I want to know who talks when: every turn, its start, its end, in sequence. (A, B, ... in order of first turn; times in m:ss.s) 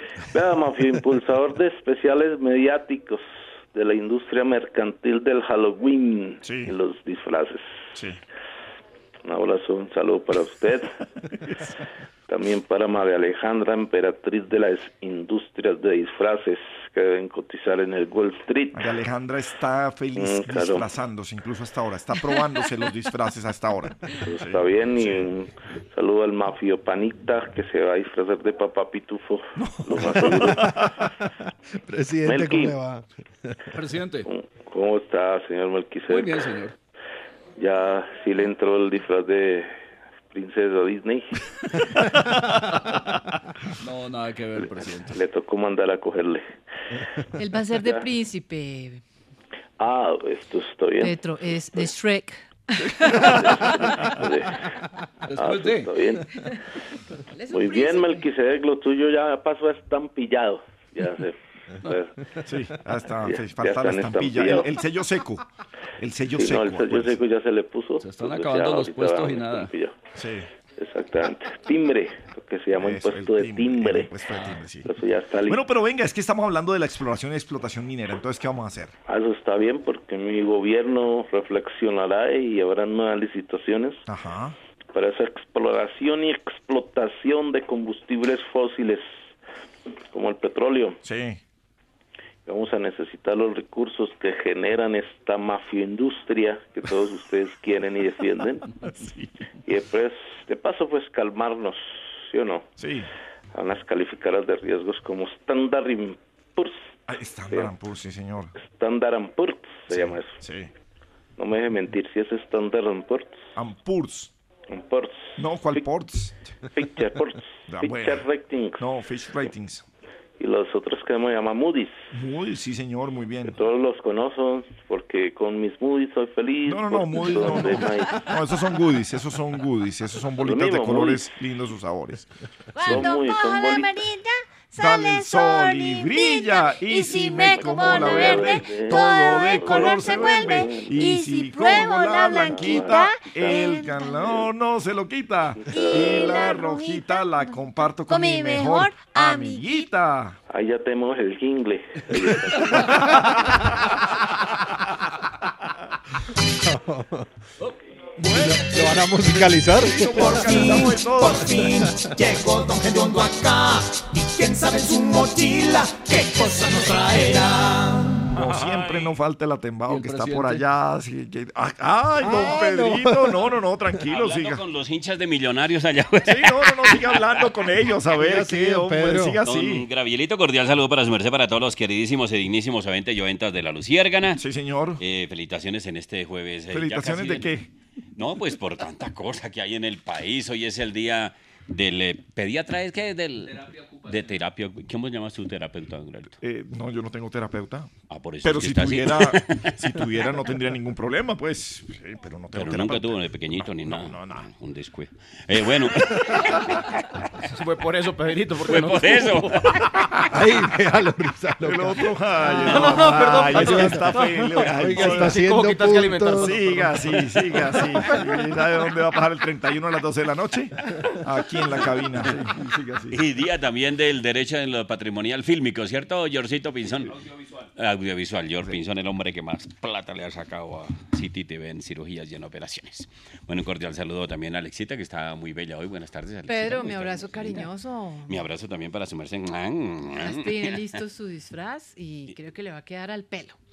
0:00.3-0:07.6 A
0:06.4-0:06.7 B
0:09.2-0:10.9 A
0:12.3-0:18.9 A
0:18.7-0:25.2 B
0:20.2-0:20.9 A
0:24.3-0:30.7 A
0:29.6-0:30.9 B
0:31.8-0:33.0 C
0:32.2-0:32.8 A
0:33.7-0:34.3 D
0:34.2-0:36.4 A
0:36.1-0:36.7 D
0:37.6-0:39.7 A
0:40.3-0:41.3 A
0:43.8-0:45.1 D
0:44.6-0:46.4 A
0:47.4-0:49.0 E
0:47.7-0:48.1 A
0:49.8-0:51.9 A
0:51.0-0:53.5 E
0:53.4-0:54.5 A
0:55.3-0:55.9 D
0:55.4-0:56.3 A
0:57.4-0:58.2 E
0:57.5-1:02.1 A
1:02.4-1:05.4 B
1:03.2-1:04.7 A
1:06.0-1:07.2 B
1:06.3-1:10.0 A
1:08.0-1:09.7 D
1:10.2-1:10.5 B
1:10.8-1:14.2 A
1:12.8-1:14.9 B
1:14.8-1:15.6 A
1:15.5-1:18.9 B
1:19.1-1:24.0 A
1:24.1-1:24.6 B
1:24.9-1:29.0 A
1:30.1-1:31.0 A
1:31.0-1:31.4 B
1:32.4-1:38.7 A
1:38.9-1:39.3 B
1:39.6-1:42.6 A
1:42.8-1:43.1 B
1:43.5-1:46.8 A
1:47.1-1:48.5 B
1:48.6-1:50.4 A
1:49.9-1:50.7 B
1:51.4-1:53.4 A
1:53.6-1:54.3 B
1:54.7-1:55.8 A
1:55.4-1:56.3 B
1:56.7-1:58.8 A
1:57.7-1:58.2 B
1:58.8-1:59.8 B
2:00.4-2:02.0 A
2:02.1-2:03.6 B
2:03.4-2:08.1 A
2:06.7-2:12.3 B
2:10.4-2:11.3 A
2:12.8-2:13.1 E
2:12.8-2:14.0 A
2:14.8-2:30.4 B
2:17.5-2:20.9 A
2:21.0-2:23.1 E
2:22.4-2:23.6 A
2:25.5-2:26.5 A
2:26.3-2:26.8 E
2:28.1-2:29.8 E
2:30.5-2:33.0 A
2:36.6-2:37.2 C
2:38.2-2:40.9 C
2:39.8-2:41.6 B
2:40.0-2:48.3 F
2:48.3-2:54.6 B
2:49.9-2:50.6 D
2:52.2-2:53.4 C
2:54.0-2:57.5 G
2:56.2-2:59.8 B
2:58.1-2:59.4 C
2:59.4-3:04.4 G
3:04.3-3:05.0 B
3:05.0-3:07.5 G
3:06.7-3:07.7 B
3:08.2-3:16.4 G
3:16.4-3:17.9 B
3:18.1-3:20.1 G
3:18.4-3:23.2 B
3:22.5-3:26.8 G
3:23.8-3:24.4 B
3:27.5-3:29.4 H
3:28.6-3:30.0 G
3:30.3-3:36.9 C
3:31.6-3:35.4 B
3:32.6-3:37.0 H
3:36.3-3:43.2 B
3:43.1-3:57.7 G
3:56.5-3:58.4 E
3:58.2-4:01.0 G
4:00.1-4:03.6 E